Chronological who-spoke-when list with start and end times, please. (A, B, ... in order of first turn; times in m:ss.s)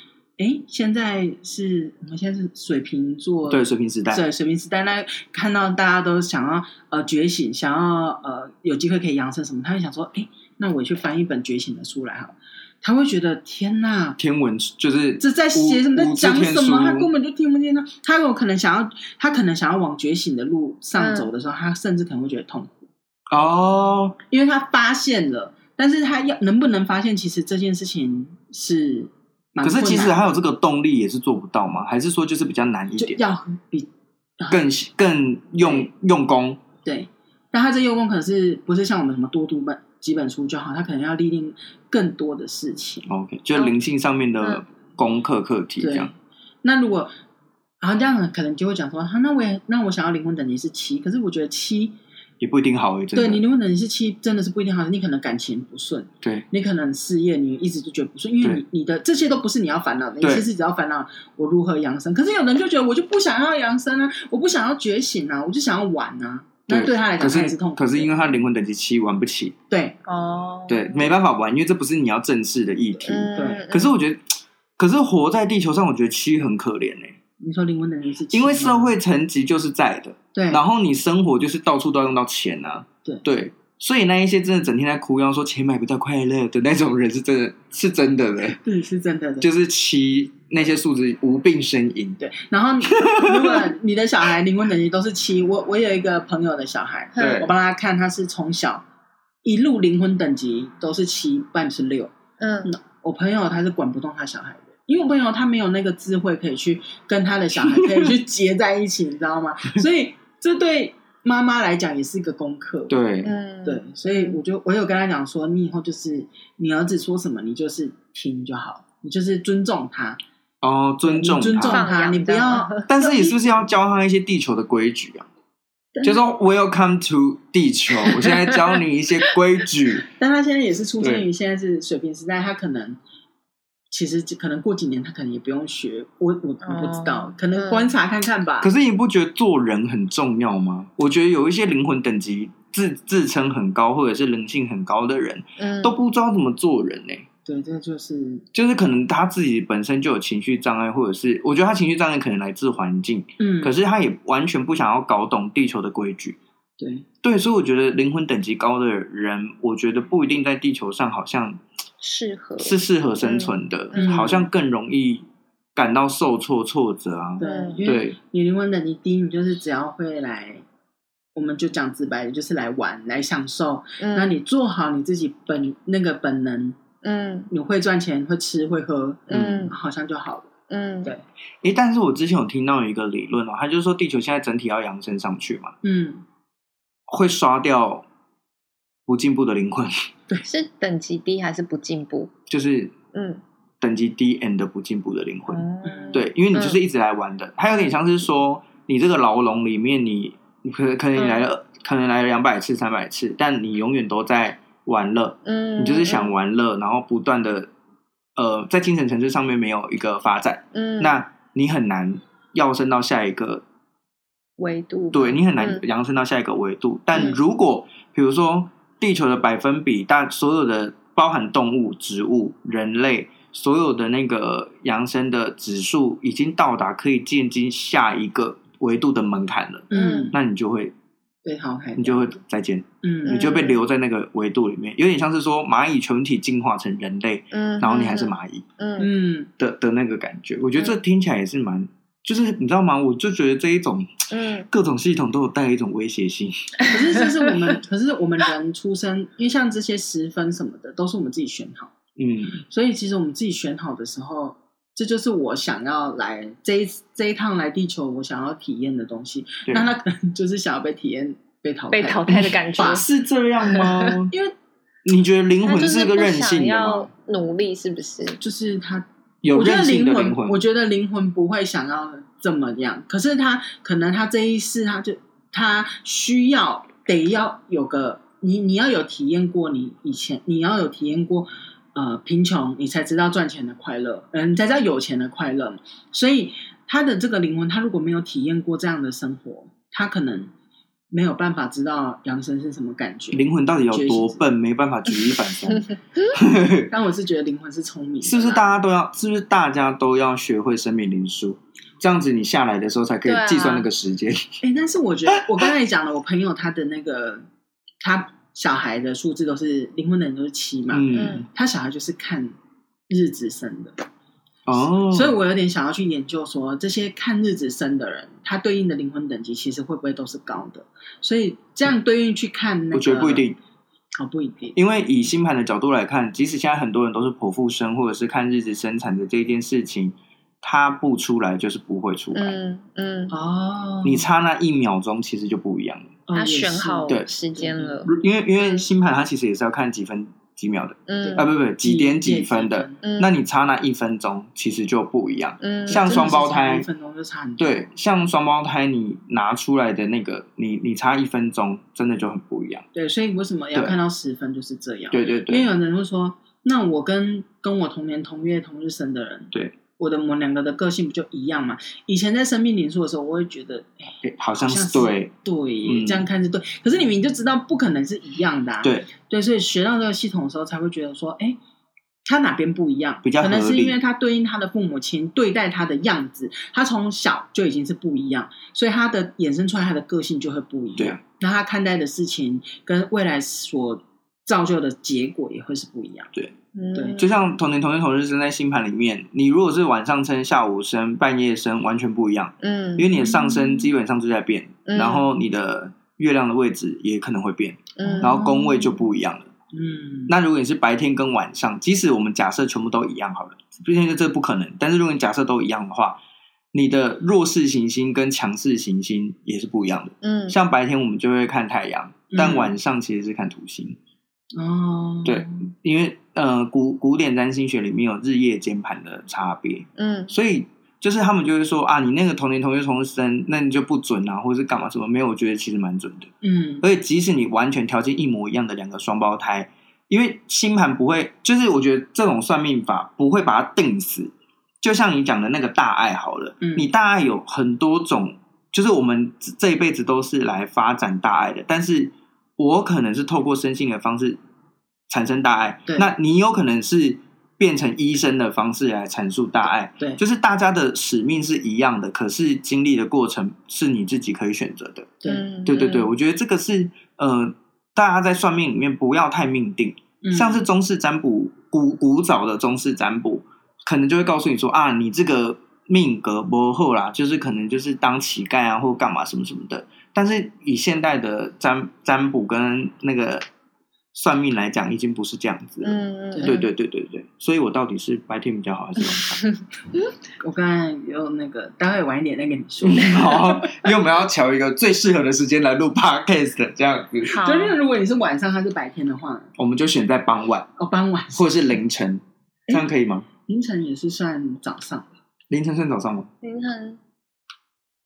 0:00.4-0:14.2 A
0:03.5-0:04.2 B
0:14.2-0:17.1 B
0:15.2-0:22.9 A
0:21.0-0:21.3 C
0:23.3-0:24.2 B
0:24.3-0:30.2 A
0:29.6-0:33.2 B
0:33.0-0:34.6 A
0:34.5-0:36.6 B
0:35.6-0:35.9 A
0:36.8-0:43.1 A
0:43.1-0:46.1 B
0:45.8-0:47.1 A
0:47.8-0:52.0 A
0:52.4-0:53.4 B
0:53.2-1:08.2 A
1:00.2-1:00.5 B
1:06.7-1:09.6 B
1:09.7-1:10.0 A
1:10.1-1:11.2 C
1:10.7-1:17.2 B
1:13.0-1:14.0 C
1:13.3-1:13.7 A
1:17.4-1:19.0 A
1:18.3-1:28.6 B
1:20.3-1:20.6 A
1:28.6-1:29.5 A
1:29.4-1:32.2 B
1:32.2-1:38.8 A
1:32.9-1:33.7 B
1:37.2-1:37.5 C
1:37.2-1:37.5 B
1:39.4-1:42.1 A
1:42.4-1:42.7 C
1:42.7-1:53.0 A
1:47.6-1:48.1 B
1:52.9-1:53.4 B
1:53.2-1:54.4 C
1:53.6-2:00.2 A
2:00.6-2:01.8 B
2:01.0-2:03.4 A
2:01.6-2:02.9 C
2:02.9-2:05.3 B
2:06.0-2:06.2 A
2:06.0-2:10.1 B
2:08.3-2:08.6 C
2:10.2-2:13.0 A
2:11.0-2:11.2 B
2:13.9-2:18.7 A
2:16.6-2:18.0 C
2:18.6-2:27.3 B
2:25.6-2:26.0 C
2:27.5-2:28.4 A
2:28.5-2:36.4 B
2:33.4-2:33.7 A
2:36.8-2:37.1 A
2:37.2-2:41.6 B
2:42.0-2:44.3 C
2:42.6-2:48.2 B
2:43.9-2:44.5 A
2:47.4-2:50.6 A
2:47.4-2:47.8 C
2:51.4-2:56.8 A
2:54.0-2:54.4 C
2:57.0-2:57.5 C
2:57.5-3:00.5 A
2:59.3-2:59.7 B
2:59.3-2:59.8 C
3:00.7-3:01.1 C
3:01.6-3:05.8 B
3:05.8-3:06.2 A
3:07.1-3:08.0 B
3:09.1-3:10.0 B
3:10.4-3:12.3 C
3:12.5-3:13.0 B
3:13.1-3:13.4 C
3:13.8-3:27.7 B
3:15.5-3:16.8 C
3:15.8-3:16.2 A
3:21.2-3:21.4 C
3:25.5-3:26.3 C
3:28.4-3:33.6 B
3:30.7-3:31.2 C
3:34.6-3:35.8 C
3:35.1-3:50.9 B
3:49.9-3:50.4 A
3:49.9-3:50.3 C
3:51.4-3:52.2 A
3:52.0-3:58.7 B
3:53.0-3:53.7 A
3:53.3-3:53.8 C
3:57.5-3:59.1 C
3:59.0-3:59.5 A
3:59.6-4:06.8 B
4:04.3-4:04.7 C
4:06.9-4:11.9 A
4:12.2-4:12.6 B
4:12.7-4:23.0 A
4:21.9-4:23.1 C
4:22.3-4:24.3 B
4:23.6-4:24.2 C
4:25.0-4:27.1 B
4:25.6-4:28.4 C
4:28.4-4:50.5 A
4:29.4-4:30.6 B
4:51.1-4:54.4 A
4:53.3-4:56.9 B
4:56.9-4:58.7 A
4:58.2-5:04.4 B
5:03.3-5:03.9 C
5:04.6-5:07.4 A
5:08.0-5:12.6 A
5:10.9-5:11.5 B
5:11.1-5:11.5 C
5:13.1-5:14.0 A
5:14.7-5:15.4 B
5:14.8-5:23.4 A
5:22.9-5:23.6 B
5:24.2-5:24.8 A
5:24.8-5:32.6 B
5:32.3-5:33.3 C
5:33.3-5:34.3 A
5:34.0-5:36.1 B
5:36.3-5:38.0 A
5:36.4-5:38.9 C
5:38.0-5:46.9 B
5:41.1-5:41.5 C
5:41.2-5:43.0 A
5:43.0-5:43.3 C
5:45.6-5:46.3 C
5:45.9-5:47.8 A
5:47.6-5:52.9 B
5:52.9-6:11.6 A
5:55.1-5:55.7 B
6:04.2-6:05.3 B
6:05.8-6:06.3 B
6:08.8-6:09.1 B
6:12.2-6:26.3 A
6:13.2-6:14.0 B
6:26.8-6:27.3 C
6:27.0-6:27.2 A
6:27.2-6:39.5 B
6:32.6-6:33.6 C
6:34.9-6:35.3 C
6:38.0-6:38.5 C
6:38.0-6:38.9 A
6:39.7-6:40.3 A
6:40.3-6:46.2 B
6:46.7-6:54.0 B
6:50.2-6:50.6 C
6:52.3-6:52.7 A
6:54.6-6:55.6 A
6:55.2-7:06.3 B
7:00.0-7:00.3 C
7:06.4-7:06.8 A
7:06.8-7:24.4 B
7:16.6-7:16.9 A
7:25.1-7:53.4 B
7:35.3-7:36.1 C
7:40.2-7:40.6 A
7:54.1-7:59.4 B
7:55.8-7:56.7 C
7:56.3-7:56.6 A
8:00.4-8:03.8 A
8:02.8-8:07.3 B
8:07.3-8:09.5 A
8:07.3-8:07.8 C
8:09.6-8:10.7 B
8:10.8-8:11.7 A
8:11.4-8:13.3 B
8:13.5-8:15.1 A
8:15.5-8:16.3 B
8:16.4-8:17.0 C